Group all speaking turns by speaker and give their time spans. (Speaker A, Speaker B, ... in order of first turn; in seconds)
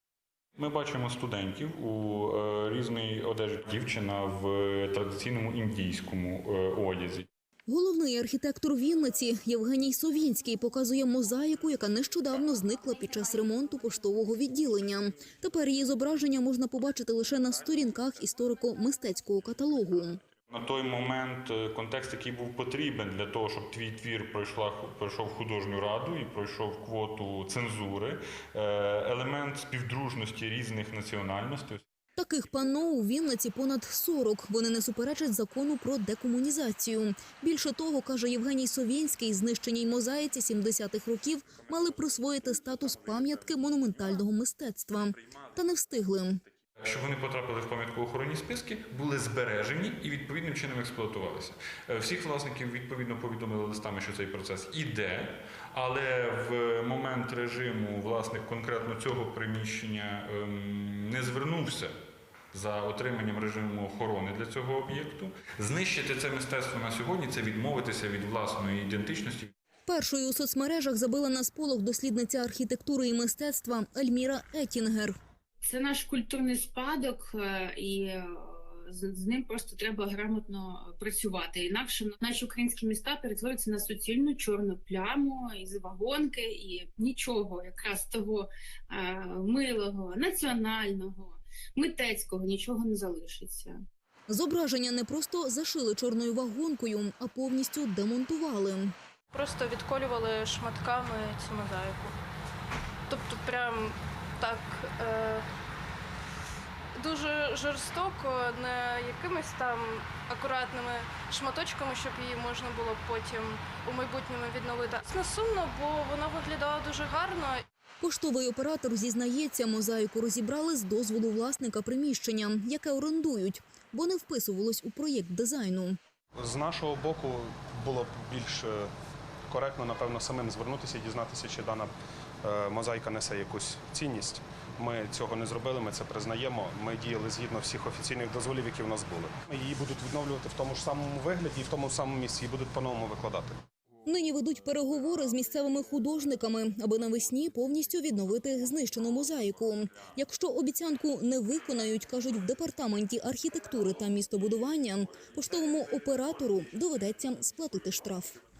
Speaker A: 0.6-7.3, 20.5-31.8, 46.8-61.9, 62.5-69.5
Speaker B: 7.7-20.2, 32.2-46.4, 69.9-75.2, 94.3-99.0, 118.0-126.0, 144.1-158.4
Speaker C: 75.6-93.8
Speaker D: 99.3-102.2, 103.1-105.5, 107.0-117.6
Speaker E: 126.4-128.9, 129.5-131.9, 132.4-143.6